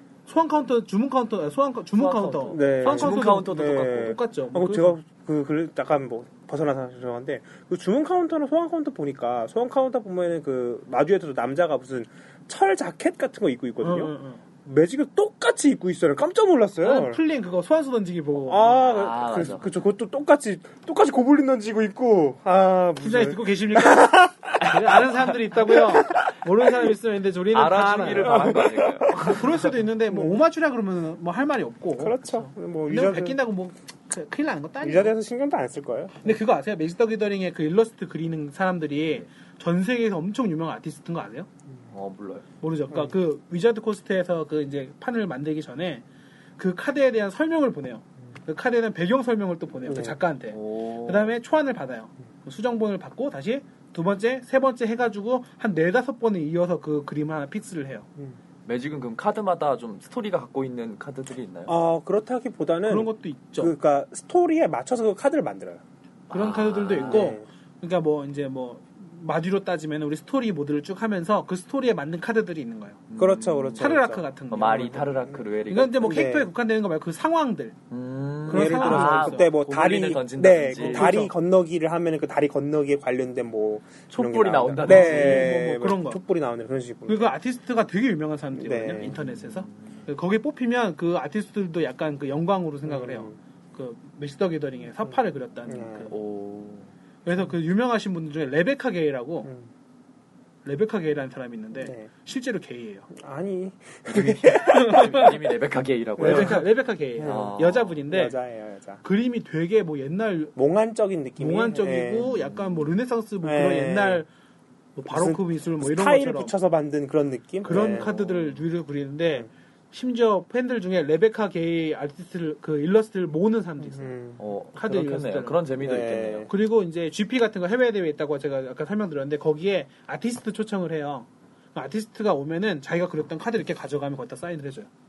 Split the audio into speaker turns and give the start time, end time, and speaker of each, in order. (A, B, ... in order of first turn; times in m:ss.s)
0:00.3-0:04.9 A
0:02.0-0:04.2 B
0:02.5-0:14.1 C
0:13.8-0:14.4 A
0:14.6-0:17.2 C
0:16.8-0:18.8 A
0:18.5-0:25.1 C
0:18.8-0:19.7 B
0:23.0-0:35.1 A
0:25.7-0:25.9 C
0:27.5-0:29.6 B
0:28.2-0:29.4 C
0:30.1-0:30.4 C
0:32.0-0:33.4 C
0:34.8-0:36.3 C
0:36.2-0:41.5 A
0:41.9-0:42.4 B
0:42.6-0:46.0 A
0:46.6-0:58.1 A
0:49.8-0:50.2 C
0:50.5-0:51.3 B
0:58.6-1:01.7 B
1:01.7-1:05.8 C
1:02.9-1:03.7 A
1:06.3-1:07.3 B
1:06.3-1:13.0 A
1:07.0-1:07.4 C
1:13.1-1:13.9 B
1:13.2-1:14.2 C
1:13.8-1:15.1 A
1:14.5-1:16.2 B
1:15.7-1:17.7 A
1:16.0-1:16.5 C
1:17.9-1:21.3 B
1:18.5-1:19.5 A
1:18.5-1:27.3 C
1:20.7-1:21.3 A
1:24.1-1:25.5 B
1:24.8-1:26.2 A
1:27.1-1:36.1 A
1:28.6-1:29.1 C
1:29.0-1:30.0 B
1:32.9-1:33.4 C
1:35.7-1:36.1 C
1:36.1-1:36.9 B
1:37.2-1:39.5 A
1:40.6-1:43.1 A
1:41.8-1:42.1 C
1:43.1-1:45.3 C
1:44.1-1:46.7 B
1:44.6-1:45.3 A
1:46.2-1:46.6 C
1:46.2-1:48.4 A
1:47.2-1:49.0 C
1:47.2-1:48.0 B
1:49.0-1:50.5 A
1:50.6-1:52.3 C
1:51.4-1:54.3 A
1:52.2-1:52.8 B
1:53.4-1:54.2 C
1:55.0-1:56.5 A
1:55.1-1:58.1 C
1:57.6-2:04.2 A
1:57.6-1:58.6 B
2:03.8-2:04.4 C
2:04.4-2:06.5 B
2:04.7-2:05.6 A
2:05.8-2:06.5 C
2:06.5-2:14.9 A